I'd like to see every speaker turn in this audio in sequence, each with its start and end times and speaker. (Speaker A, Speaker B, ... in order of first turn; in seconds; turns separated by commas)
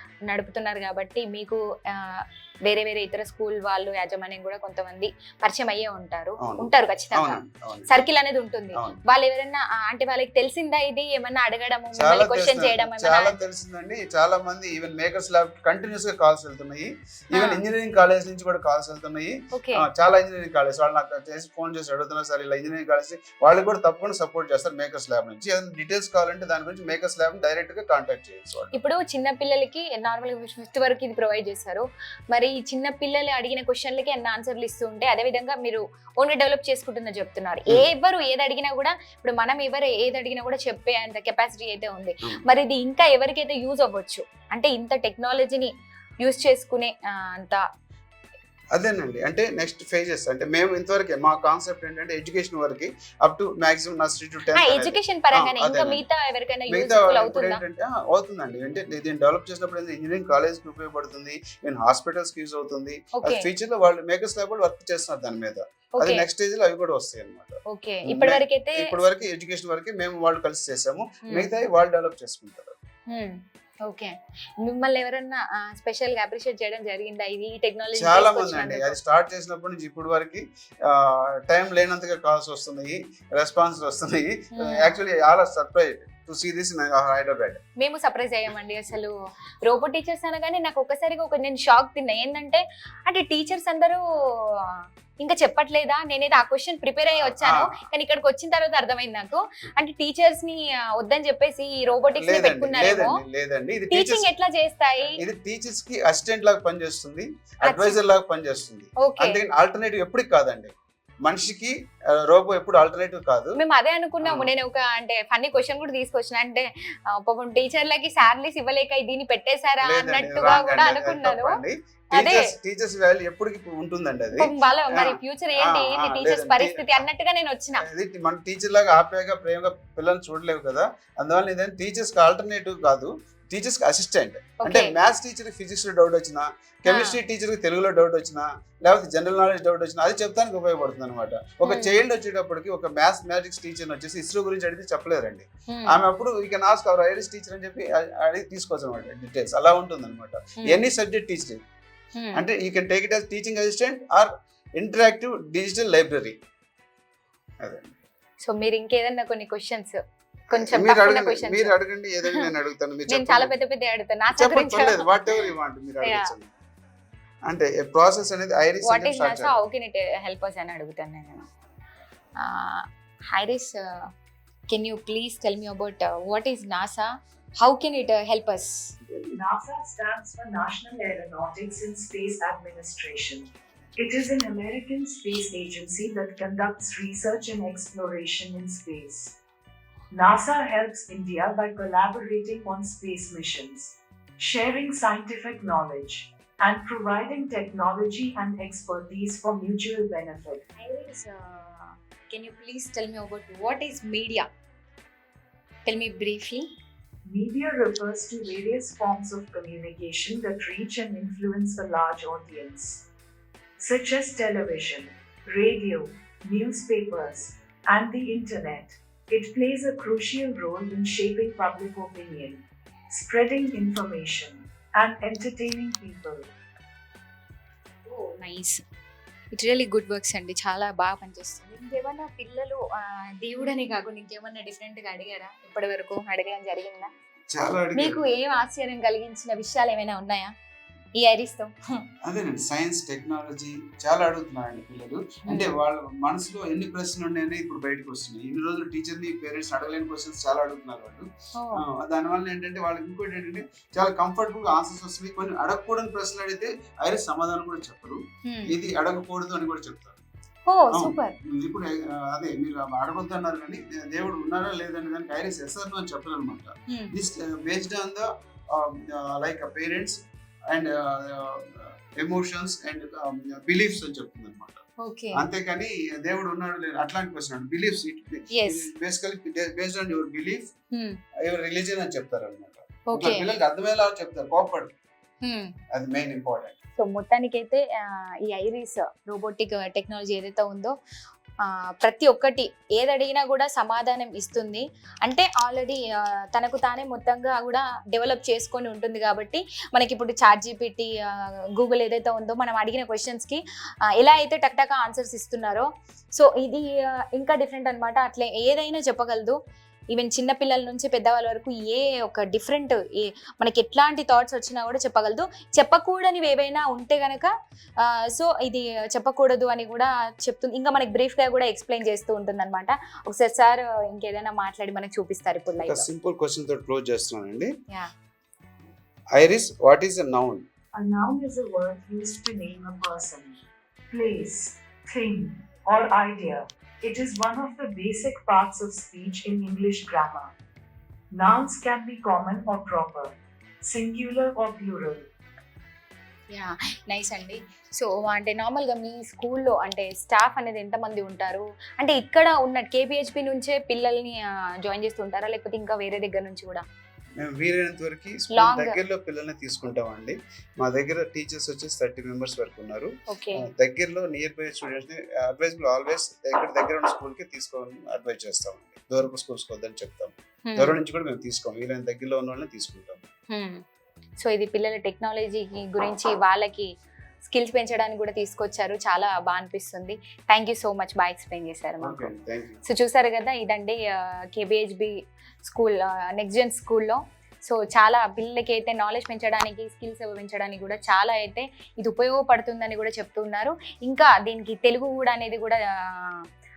Speaker A: 0.3-13.3, Speaker B: 6.4-8.0, Speaker B: 8.7-9.0, Speaker B: 11.9-28.8, Speaker A: 17.3-17.6, Speaker A: 19.5-19.9, Speaker A: 28.7-45.7, Speaker A: 46.2-47.6, Speaker B: 48.7-56.0, Speaker A: 54.5-57.6, Speaker B: 56.7-67.6, Speaker A: 63.2-63.5, Speaker A: 66.0-66.2, Speaker A: 67.7-68.9, Speaker B: 68.1-72.8, Speaker A: 73.1-79.0, Speaker B: 78.0-87.6, Speaker A: 84.5-84.9, Speaker A: 87.8-89.1, Speaker A: 89.6-103.2, Speaker B: 97.2-97.8, Speaker B: 102.1-104.2, Speaker A: 103.9-105.2, Speaker B: 105.2-111.7, Speaker A: 107.7-108.0, Speaker A: 109.0-109.4, Speaker B: 112.3-113.6, Speaker A: 113.6-121.6, Speaker B: 114.2-114.5, Speaker B: 119.8-127.0, Speaker A: 122.1-122.5, Speaker A: 124.4-127.8, Speaker B: 127.8-151.6, Speaker A: 134.6-134.9, Speaker A: 136.9-137.1, Speaker A: 141.6-142.0, Speaker A: 145.7-146.0, Speaker A: 152.2-152.4, Speaker B: 152.3-156.3, Speaker B: 157.6-157.9, Speaker A: 158.4-160.0, Speaker A: 160.5-161.7, Speaker B: 160.5-163.5, Speaker A: 163.1-165.5, Speaker B: 164.3-166.5, Speaker A: 166.0-166.3, Speaker B: 167.4-169.6, Speaker A: 168.8-171.4, Speaker A: 172.4-174.1, Speaker A: 174.7-178.9, Speaker B: 179.1-179.3, Speaker C: 179.4-183.5, Speaker C: 184.0-189.3, Speaker C: 190.1-200.6, Speaker A: 200.8-204.5, Speaker A: 205.8-206.7, Speaker C: 207.2-213.0, Speaker C: 213.8-226.5, Speaker A: 228.1-228.8, Speaker A: 229.5-237.1, Speaker B: 237.5-238.2, Speaker A: 238.0-240.5, Speaker A: 241.2-241.7, Speaker B: 242.2-260.2, Speaker A: 245.5-245.7, Speaker A: 251.6-251.8, Speaker A: 258.4-258.7, Speaker A: 260.6-261.3, Speaker B: 260.9-270.2, Speaker B: 270.7-274.8, Speaker A: 275.0-275.4, Speaker B: 275.3-280.7, Speaker A: 278.5-278.9, Speaker A: 280.9-281.2, Speaker B: 281.4-284.9, Speaker A: 283.1-283.4, Speaker A: 285.4-285.7, Speaker B: 285.9-286.7, Speaker A: 287.0-290.9, Speaker A: 291.6-303.6, Speaker A: 304.2-309.6, Speaker A: 310.1-326.0, Speaker B: 325.8-327.7, Speaker B: 329.3-330.6, Speaker C: 330.9-333.6, Speaker C: 334.1-340.5, Speaker C: 341.3-345.3, Speaker A: 346.5-356.8, Speaker B: 357.4-373.2, Speaker A: 358.5-359.0, Speaker A: 363.3-363.6, Speaker A: 370.6-370.9, Speaker A: 373.5-373.8, Speaker A: 374.4-376.9, Speaker A: 377.4-382.3, Speaker B: 382.0-382.8, Speaker A: 382.8-396.4